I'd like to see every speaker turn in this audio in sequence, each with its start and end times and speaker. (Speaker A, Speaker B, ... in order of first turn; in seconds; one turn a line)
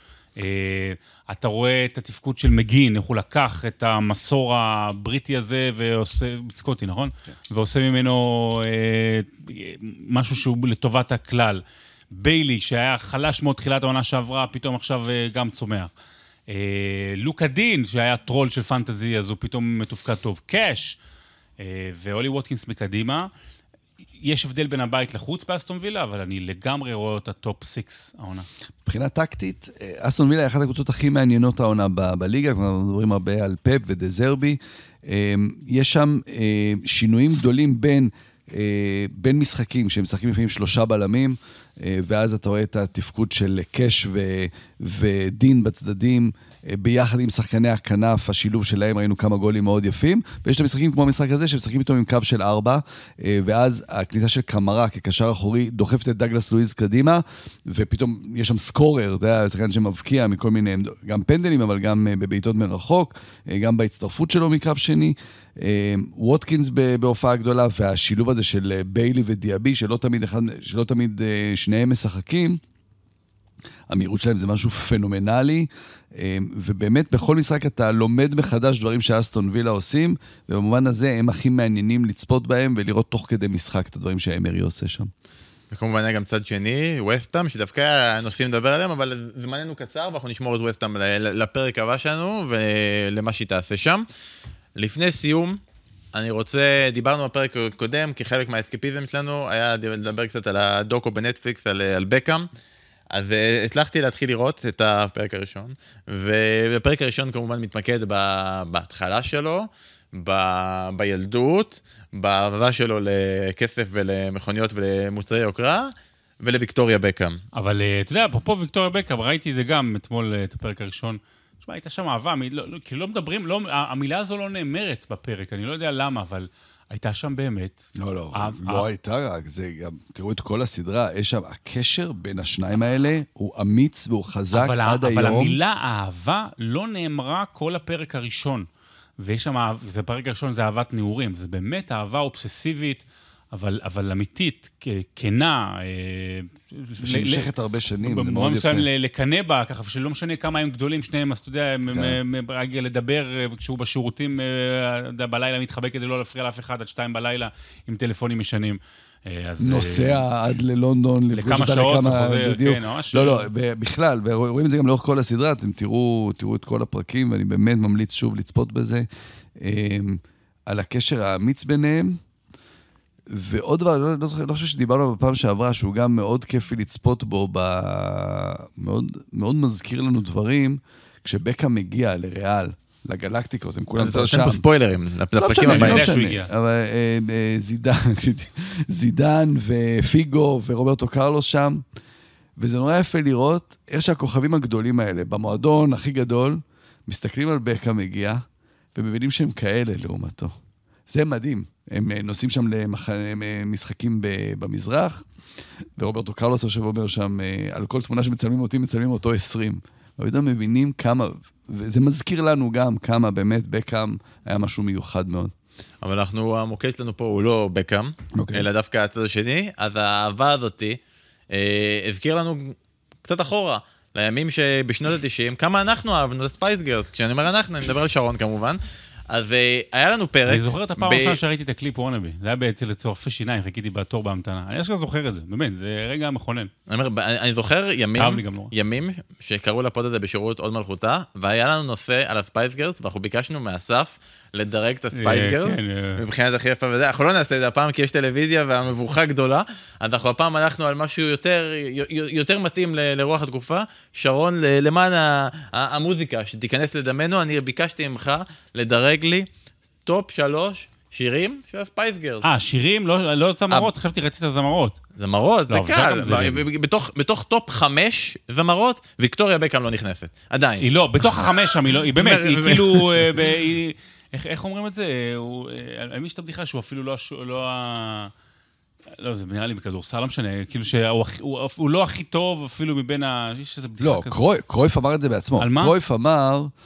Speaker A: 0.4-15.9
Speaker A: 16.5-21.0
Speaker A: 21.6-23.3
Speaker A: 24.2-28.5
Speaker B: 28.9-72.6
Speaker B: 73.9-85.1
Speaker C: 85.7-94.1
Speaker C: 94.8-95.6
Speaker C: 96.1-102.5
Speaker C: 103.1-117.4
Speaker A: 117.5-128.9
Speaker B: 127.9-135.6
Speaker A: 134.5-138.7
Speaker A: 139.2-147.5
Speaker B: 147.0-148.9
Speaker A: 148.0-160.2
Speaker B: 151.9-152.2
Speaker B: 159.6-172.2
Speaker A: 161.3-163.5
Speaker B: 173.3-184.6
Speaker C: 184.0-186.1
Speaker B: 185.3-191.8
Speaker A: 185.6-186.5
Speaker B: 192.6-198.4
Speaker B: 198.9-200.5
Speaker B: 201.1-205.2
Speaker B: 206.0-215.5
Speaker C: 216.0-221.0
Speaker B: 218.4-218.7
Speaker C: 221.5-231.4
Speaker A: 230.5-236.7
Speaker C: 236.9-259.5
Speaker A: 238.2-238.7
Speaker A: 245.1-246.2
Speaker C: 260.0-262.4
Speaker A: 262.4-265.0
Speaker C: 265.2-273.5
Speaker A: 265.7-266.6
Speaker A: 270.8-278.3
Speaker A: 279.1-284.4
Speaker B: 284.0-286.7
Speaker A: 285.6-285.9